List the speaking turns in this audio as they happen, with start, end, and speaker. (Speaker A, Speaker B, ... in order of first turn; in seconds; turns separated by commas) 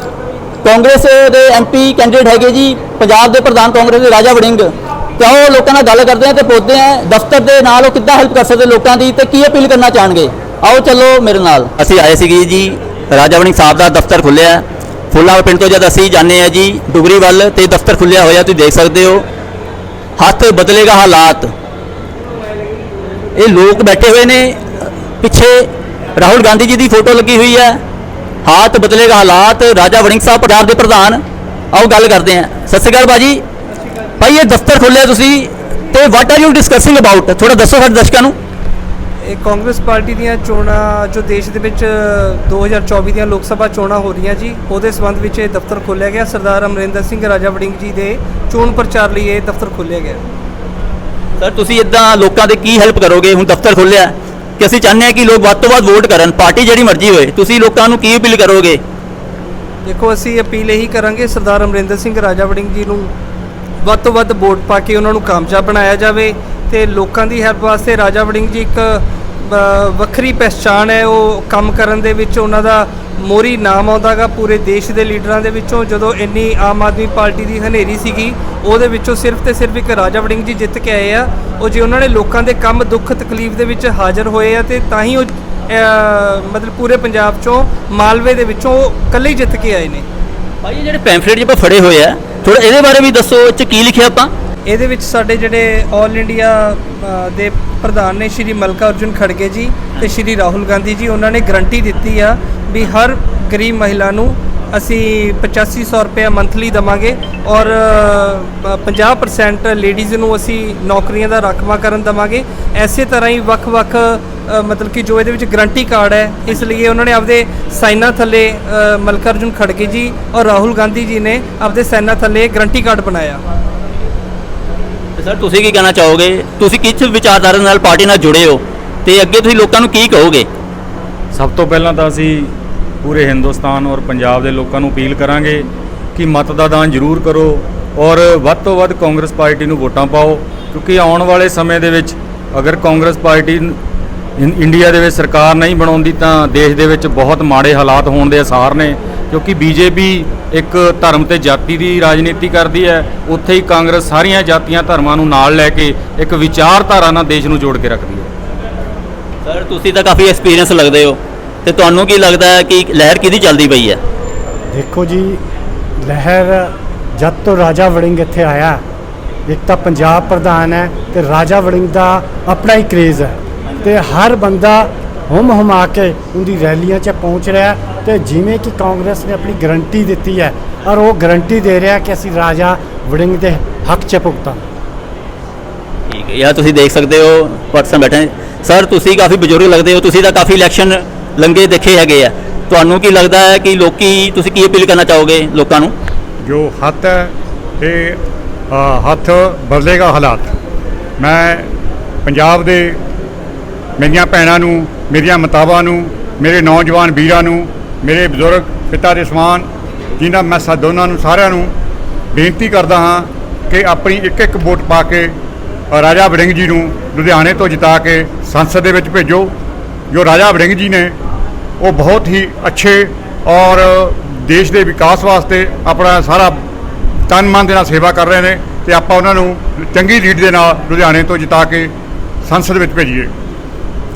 Speaker A: 0.6-4.7, Speaker A: 5.2-19.2, Speaker A: 20.2-21.5, Speaker A: 23.4-27.8, Speaker A: 28.4-31.2, Speaker A: 31.7-33.4, Speaker A: 34.2-38.4, Speaker B: 39.2-50.2, Speaker A: 51.4-58.8, Speaker B: 59.9-63.1, Speaker B: 63.8-90.0, Speaker A: 90.6-94.3, Speaker B: 94.7-123.4, Speaker A: 125.2-130.5, Speaker C: 131.3-132.5, Speaker C: 133.0-143.8, Speaker C: 144.4-158.3, Speaker A: 159.4-164.0, Speaker D: 164.7-165.4, Speaker D: 166.0-168.8, Speaker D: 169.5-184.6, Speaker A: 186.1-195.9, Speaker E: 196.4-198.2, Speaker E: 198.7-200.5, Speaker E: 201.2-201.7, Speaker E: 202.2-203.0, Speaker E: 204.0-211.7, Speaker E: 212.3-215.3, Speaker E: 215.9-219.5, Speaker E: 220.1-221.2, Speaker E: 221.8-226.6, Speaker E: 227.3-231.9, Speaker E: 232.4-233.3